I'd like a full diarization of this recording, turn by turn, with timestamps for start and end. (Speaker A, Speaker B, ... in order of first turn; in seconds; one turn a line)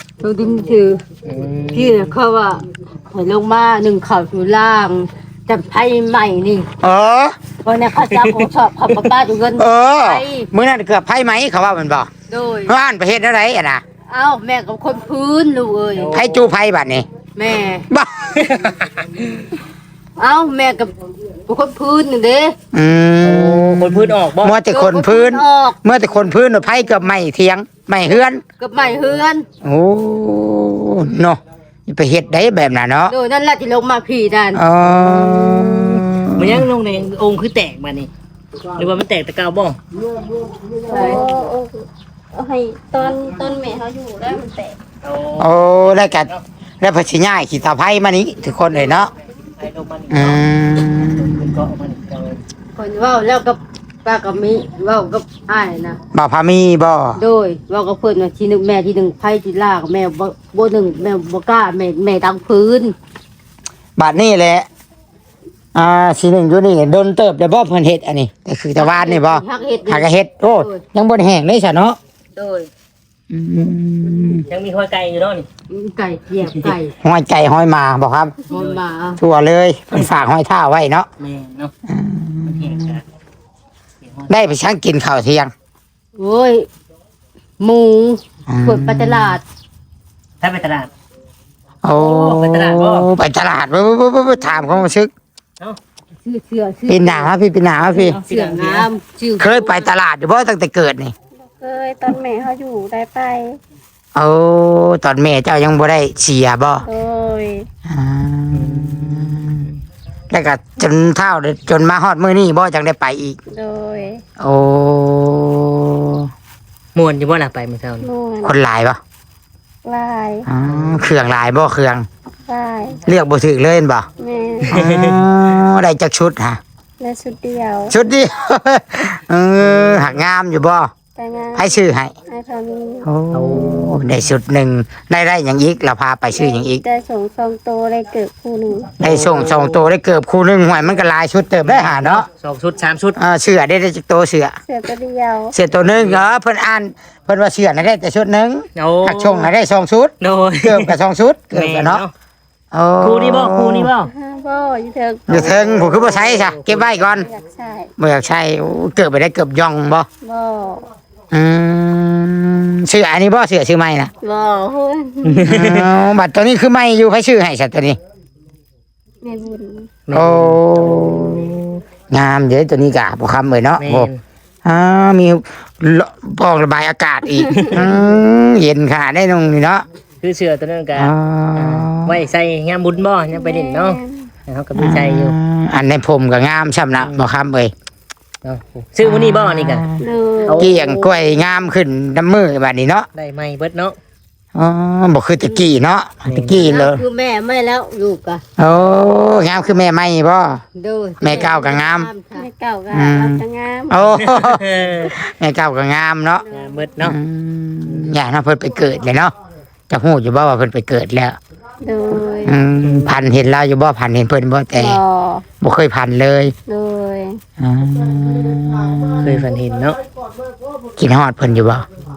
Speaker A: 0.2-1.0
Speaker B: 1.2-2.1
Speaker A: 1.7-6.7
Speaker C: 6.8-7.3
Speaker A: 7.6-10.5
Speaker B: 8.1-9.1
Speaker C: 9.6-12.1
Speaker A: 12.3-12.8
Speaker C: 12.7-13.8
Speaker A: 14.1-16.1
Speaker B: 15.9-16.6
Speaker C: 16.1-17.1
Speaker A: 17.4-17.9
Speaker C: 17.9-18.5
Speaker B: 18.4-19.6
Speaker A: 20.2-22.6
Speaker C: 22.7-28.4
Speaker B: 23.2-24.6
Speaker A: 24.7-25.8
Speaker A: 28.1-29.5
Speaker C: 29.6-33.1
Speaker A: 33.1-34.6
Speaker C: 34.5-36.7
Speaker B: 34.8-38.1
Speaker B: 38.7-39.8
Speaker D: 40.7-44.8
Speaker A: 40.9-41.2
Speaker B: 45.0-46.4
Speaker C: 45.4-49.1
Speaker B: 48.6-52.4
Speaker C: 50.1-51.6
Speaker A: 52.8-56.0
Speaker C: 56.1-57.2
Speaker A: 57.2-63.0
Speaker C: 64.0-64.7
Speaker C: 65.8-72.0
Speaker A: 68.8-70.8
Speaker A: 72.3-72.7
Speaker C: 73.3-74.5
Speaker B: 74.5-75.5
Speaker A: 75.7-76.9
Speaker B: 76.5-76.8
Speaker C: 77.0-78.3
Speaker A: 78.5-79.2
Speaker B: 78.5-78.8
Speaker C: 79.2-81.1
Speaker B: 81.2-81.7
Speaker C: 81.9-83.0
Speaker B: 82.4-83.0
Speaker B: 84.0-84.4
Speaker C: 84.3-85.5
Speaker A: 86.2-86.7
Speaker A: 87.6-89.4
Speaker C: 88.5-89.4
Speaker B: 90.4-90.9
Speaker C: 91.8-95.1
Speaker B: 91.9-93.1
Speaker D: 94.4-94.8
Speaker A: 96.2-97.3
Speaker C: 96.9-98.2
Speaker B: 97.8-98.9
Speaker A: 98.2-99.9
Speaker C: 99.4-101.1
Speaker D: 101.4-103.6
Speaker C: 104.2-106.9
Speaker D: 106.8-107.7
Speaker C: 107.9-109.7
Speaker B: 108.5-109.8
Speaker C: 110.3-113.4
Speaker D: 113.5-114.2
Speaker C: 114.4-116.3
Speaker B: 117.0-118.1
Speaker D: 118.0-118.6
Speaker C: 118.4-119.0
Speaker D: 119.8-120.5
Speaker C: 120.5-122.1
Speaker B: 120.7-121.1
Speaker D: 122.5-123.0
Speaker C: 123.1-124.1
Speaker D: 124.2-124.8
Speaker B: 124.7-125.2
Speaker C: 124.7-126.6
Speaker D: 127.0-128.0
Speaker C: 127.9-130.9
Speaker B: 129.6-130.2
Speaker D: 131.2-133.1
Speaker C: 131.6-132.1
Speaker C: 133.0-136.8
Speaker B: 133.3-134.0
Speaker D: 136.3-139.0
Speaker B: 139.0-139.9
Speaker C: 139.0-142.3
Speaker B: 141.6-143.2
Speaker C: 143.2-144.6
Speaker D: 144.7-145.6
Speaker C: 145.5-150.1
Speaker B: 145.7-146.3
Speaker B: 148.8-149.5
Speaker B: 150.2-151.0
Speaker C: 150.6-152.0
Speaker B: 151.5-152.1
Speaker C: 152.7-153.9
Speaker B: 153.0-154.1
Speaker D: 154.1-155.6
Speaker C: 155.3-157.3
Speaker B: 155.3-157.2
Speaker D: 157.1-157.9
Speaker C: 158.0-160.1
Speaker D: 160.2-160.9
Speaker C: 161.3-164.1
Speaker D: 164.2-165.5
Speaker B: 165.2-165.9
Speaker C: 165.5-168.0
Speaker D: 169.2-169.9
Speaker B: 170.1-171.6
Speaker C: 170.1-174.1
Speaker B: 173.8-174.2
Speaker C: 174.7-179.8
Speaker B: 177.6-178.0
Speaker B: 180.2-185.4
Speaker C: 180.9-182.2
Speaker D: 183.3-184.3
Speaker C: 184.8-187.7
Speaker B: 187.0-187.3
Speaker B: 188.4-189.9
Speaker C: 189.0-190.1
Speaker D: 190.0-191.5
Speaker B: 190.4-190.8
Speaker C: 190.6-193.1
Speaker B: 193.2-194.0
Speaker C: 194.6-197.0
Speaker B: 196.3-196.7
Speaker A: 196.6-198.4
Speaker C: 198.6-200.6
Speaker A: 200.8-202.5
Speaker C: 201.2-202.1
Speaker D: 202.3-204.1
Speaker C: 202.9-206.4
Speaker B: 204.1-205.2
Speaker D: 206.4-206.8
Speaker B: 206.5-207.2
Speaker C: 207.0-209.3
Speaker B: 207.9-208.2
Speaker C: 209.9-211.4
Speaker D: 211.8-212.6
Speaker C: 212.4-215.0
Speaker B: 212.8-213.2
Speaker D: 214.8-215.5
Speaker C: 215.6-216.5
Speaker D: 216.7-217.4
Speaker C: 217.6-219.5
Speaker B: 219.2-220.0
Speaker C: 221.0-221.8